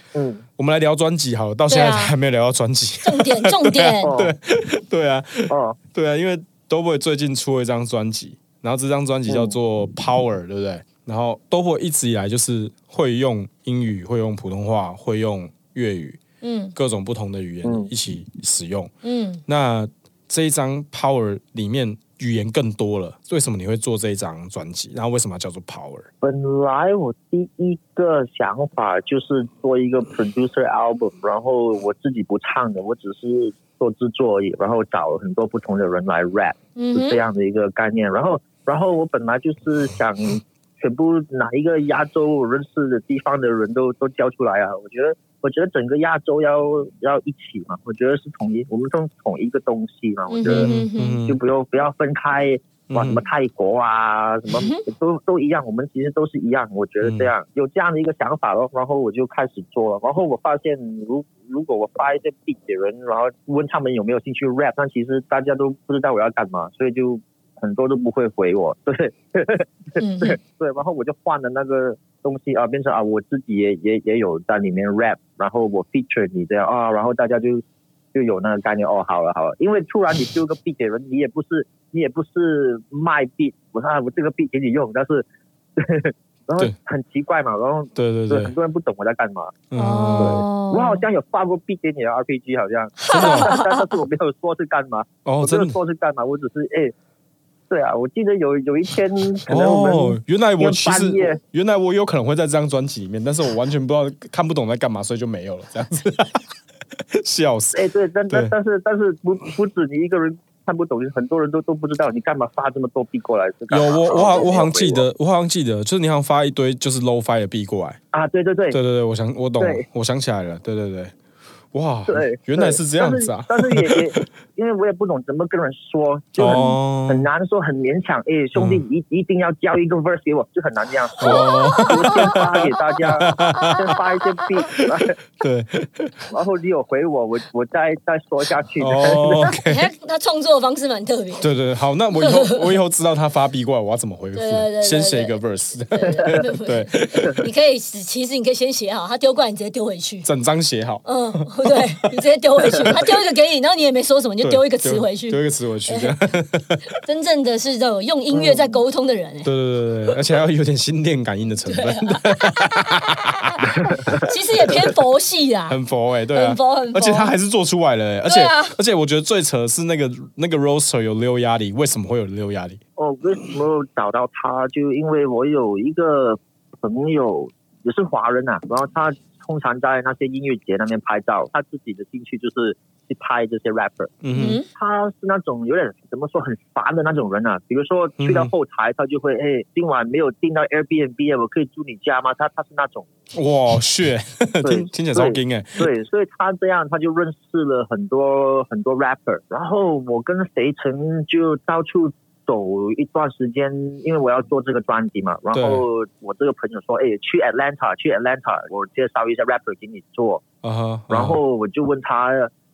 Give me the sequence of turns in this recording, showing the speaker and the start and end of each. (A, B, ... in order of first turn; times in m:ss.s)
0:00.1-0:00.4 A
0:00.6-0:16.2 B
0:01.7-0:02.1 C
0:03.0-0:04.1 C
0:04.0-0:04.3 A
0:05.5-0:05.8 A
0:09.3-0:09.6 A
0:16.4-0:16.7 C
0:16.7-0:18.9 B
0:17.6-0:17.9 A
0:19.0-0:19.4 C
0:19.5-0:26.1 B
0:26.2-0:50.7 A
0:36.8-0:37.2 C
0:50.3-0:51.2 C
0:50.4-0:51.4 B
0:51.2-1:17.6 A
0:52.9-0:53.2 B
0:54.5-0:54.8 C
0:57.0-0:57.3 B
1:10.0-1:10.4 C
1:18.1-1:25.2 A
1:25.8-1:29.6 A
1:27.9-1:28.5 B
1:29.7-1:30.4 B
1:29.7-1:31.0 C
1:30.2-1:36.9 A
1:33.0-1:34.0 C
1:33.1-1:33.5 B
1:35.2-1:35.8 B
1:37.7-1:41.4 A
1:39.5-1:46.4 B
1:47.1-1:48.5 B
1:47.7-1:55.0 A
1:53.7-1:58.0 B
1:58.1-1:58.8 A
1:58.7-2:01.1 B
1:59.6-1:59.8 A
2:01.7-2:04.2 B
2:02.1-2:15.2 A
2:06.4-2:07.3 B
2:06.4-2:06.8 C
2:08.5-2:08.8 B
2:11.2-2:13.9 B
2:11.2-2:12.4 C
2:14.8-2:16.3 B
2:16.3-2:19.6 A
2:18.8-2:19.9 B
2:19.6-2:21.5 C
2:21.4-2:27.4 B
2:22.2-2:22.7 C
2:24.3-2:30.3 C
2:30.2-2:31.8 B
2:31.0-2:36.1 C
2:34.4-2:36.9 B
2:37.0-2:39.5 C
2:38.3-2:38.8 A
2:39.4-2:44.3 B
2:41.7-2:45.8 C
2:43.8-2:44.2 A
2:45.7-2:52.8 B
2:46.3-2:47.3 C
2:48.2-2:48.7 C
2:53.0-3:04.1 A
3:04.2-3:04.6 B
3:04.3-3:04.6 C
3:04.7-3:13.1 A
3:08.2-3:08.5 B
3:13.3-3:15.9 B
3:14.6-3:30.4 A
3:25.5-3:25.8 B
3:30.6-3:31.4 B
3:31.1-3:32.5 A